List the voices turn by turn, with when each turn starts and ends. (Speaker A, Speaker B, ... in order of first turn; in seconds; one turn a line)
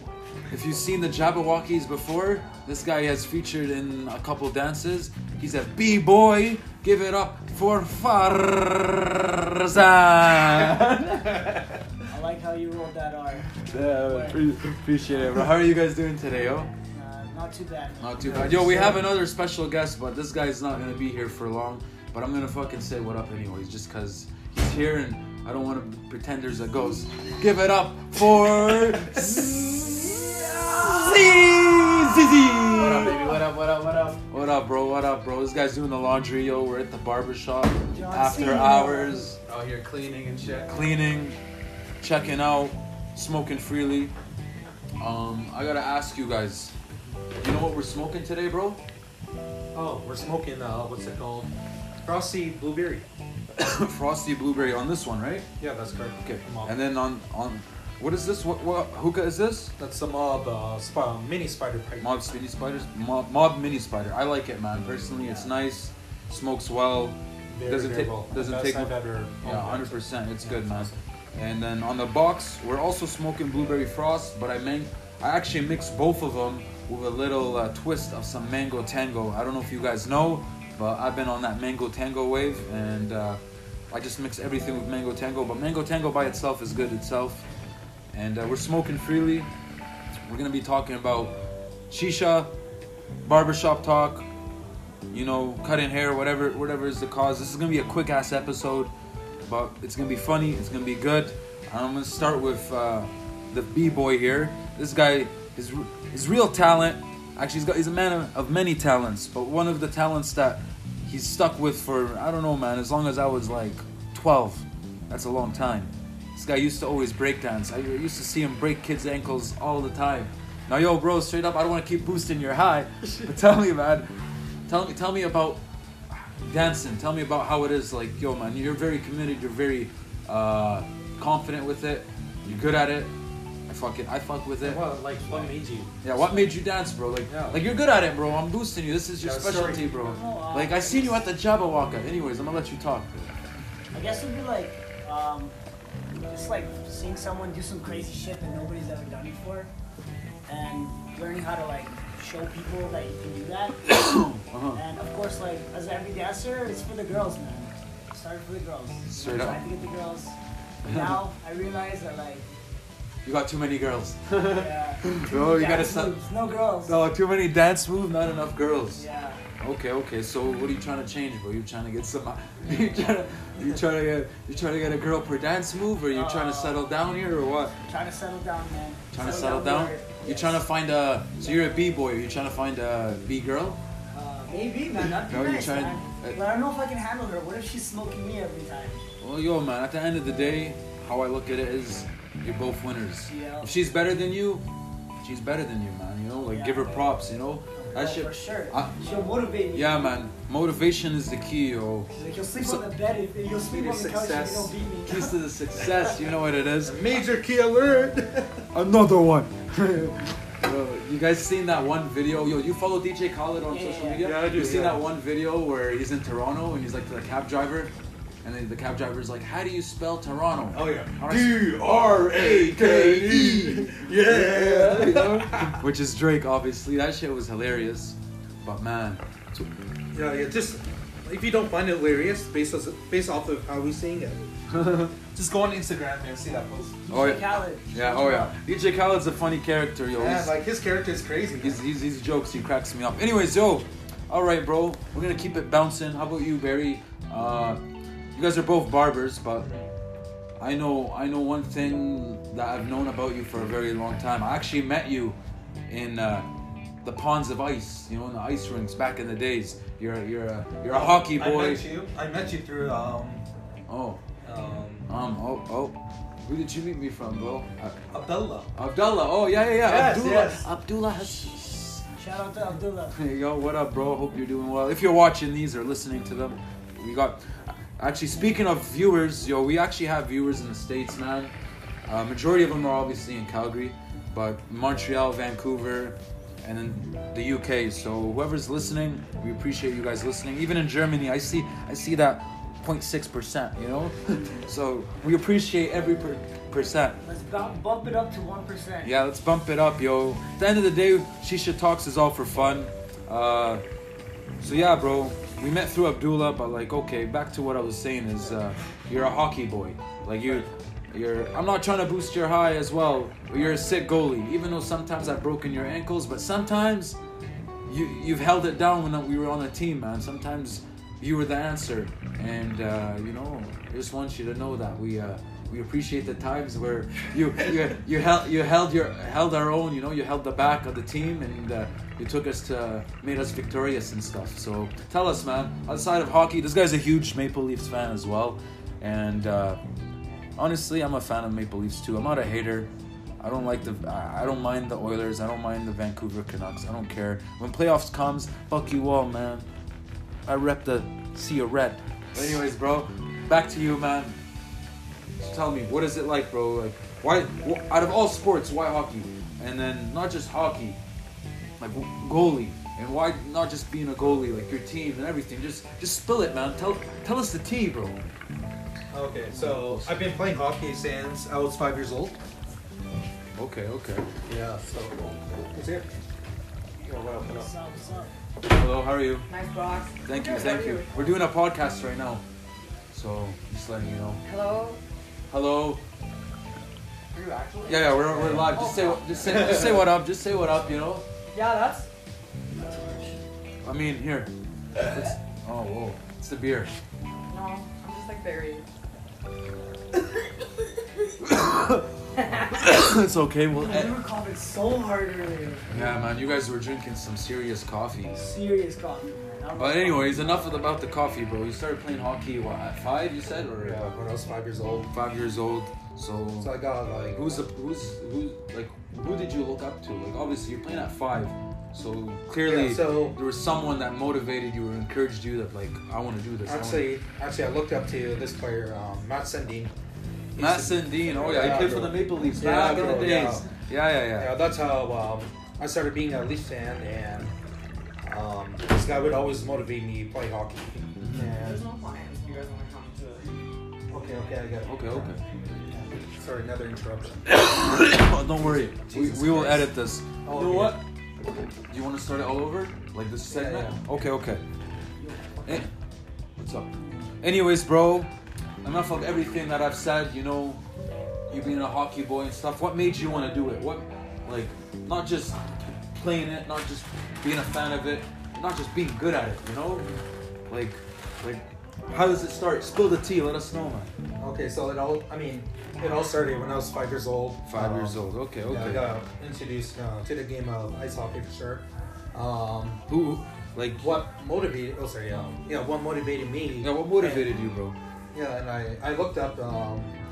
Speaker A: 0.5-11.7
Speaker B: 12.1-14.4
Speaker A: 13.7-16.7
Speaker B: 16.9-19.0
Speaker A: 18.0-39.6
Speaker C: 33.0-33.4
Speaker D: 33.4-34.2
Speaker B: 37.9-39.3
Speaker D: 39.5-40.7
Speaker A: 40.6-41.4
Speaker A: 42.0-44.1
Speaker A: 45.0-46.7
Speaker A: 47.4-48.8
Speaker E: 49.7-53.1
Speaker A: 53.5-55.5
Speaker E: 55.6-56.8
Speaker A: 56.2-59.7
Speaker E: 59.8-62.4
Speaker A: 62.0-83.4
Speaker B: 65.2-65.5
Speaker E: 67.5-71.0
Speaker A: 83.9-87.5
Speaker A: 88.1-89.5
Speaker A: 90.1-91.4
Speaker A: 91.9-92.5
Speaker A: 93.2-94.3
Speaker A: 95.1-98.9
Speaker A: 99.5-124.1
Speaker A: 124.7-133.1
Speaker A: 133.7-135.5
Speaker E: 134.6-135.9
Speaker A: 136.0-143.3
Speaker E: 137.3-137.6
Speaker E: 139.2-139.8
Speaker B: 139.9-141.3
Speaker B: 143.9-145.6
Speaker B: 146.3-149.7
Speaker B: 150.5-153.9
Speaker A: 153.8-154.8
Speaker B: 154.7-162.5
Speaker A: 159.1-159.6
Speaker A: 160.8-161.2
Speaker A: 163.2-166.2
Speaker B: 164.3-167.0
Speaker A: 166.8-169.0
Speaker B: 168.9-169.4
Speaker A: 169.6-177.8
Speaker B: 176.1-176.8
Speaker B: 177.9-180.6
Speaker A: 179.1-183.8
Speaker B: 184.1-189.0
Speaker A: 184.9-186.4
Speaker A: 189.2-194.6
Speaker B: 193.2-193.8
Speaker A: 195.2-199.0
Speaker B: 196.5-197.0
Speaker B: 197.8-200.1
Speaker A: 199.7-202.8
Speaker B: 202.1-205.4
Speaker E: 203.5-204.9
Speaker A: 205.1-207.0
Speaker E: 206.8-208.7
Speaker A: 208.7-229.7
Speaker B: 213.7-214.3
Speaker E: 214.2-215.1
Speaker E: 220.7-225.8
Speaker E: 230.1-237.0
Speaker A: 234.7-235.1
Speaker B: 237.1-238.6
Speaker A: 237.1-240.6
Speaker E: 240.2-241.8
Speaker A: 241.6-247.8
Speaker A: 248.3-249.7
Speaker E: 249.6-249.9
Speaker A: 250.6-255.4
Speaker A: 255.9-256.5
Speaker A: 257.0-261.8
Speaker E: 260.9-263.4
Speaker A: 263.9-264.2
Speaker E: 264.4-265.1
Speaker A: 265.1-268.0
Speaker E: 268.1-268.7
Speaker A: 268.7-272.1
Speaker E: 269.8-270.7
Speaker B: 272.2-273.2
Speaker A: 273.1-281.5
Speaker A: 282.1-297.2
Speaker B: 297.2-299.2
Speaker A: 299.0-303.8
Speaker A: 304.6-317.2
Speaker A: 317.9-339.8
Speaker A: 340.6-349.7
Speaker A: 350.5-354.4
Speaker A: 355.4-361.0
Speaker A: 361.8-368.2
Speaker E: 369.1-372.4
Speaker A: 369.5-370.2
Speaker A: 373.6-374.3
Speaker E: 374.5-376.1
Speaker E: 377.0-377.7
Speaker B: 377.4-378.3
Speaker A: 378.6-379.5
Speaker C: 379.5-381.1
Speaker A: 380.2-382.4
Speaker A: 383.1-384.4
Speaker C: 384.4-385.0
Speaker A: 385.5-386.0
Speaker C: 387.3-389.8
Speaker E: 387.4-388.8
Speaker A: 387.9-391.3
Speaker C: 391.5-392.1
Speaker B: 392.9-393.3
Speaker A: 393.8-397.0
Speaker C: 397.5-398.9
Speaker A: 401.4-402.1
Speaker A: 402.7-404.2
Speaker B: 403.8-406.0
Speaker A: 405.9-408.6
Speaker B: 408.4-410.7
Speaker A: 409.8-414.0
Speaker E: 413.8-415.1
Speaker A: 415.1-416.8
Speaker E: 416.6-417.5
Speaker A: 417.3-427.1
Speaker E: 422.6-423.4
Speaker E: 426.6-429.9
Speaker E: 430.6-433.7
Speaker A: 430.6-434.6
Speaker E: 434.4-437.5
Speaker E: 438.2-441.8
Speaker A: 441.2-441.5
Speaker C: 441.5-443.4
Speaker E: 444.1-445.3
Speaker A: 444.9-445.4
Speaker E: 445.9-447.6
Speaker A: 447.5-451.0
Speaker E: 448.6-449.9
Speaker E: 450.4-451.0
Speaker A: 451.9-454.6
Speaker E: 453.5-454.0
Speaker A: 456.6-458.3
Speaker A: 458.8-460.8
Speaker A: 461.5-465.6
Speaker A: 466.1-470.1
Speaker A: 470.7-474.1
Speaker E: 474.4-483.0
Speaker A: 477.7-479.1
Speaker A: 483.1-484.2
Speaker E: 484.0-487.5
Speaker A: 486.8-487.9
Speaker E: 488.3-490.1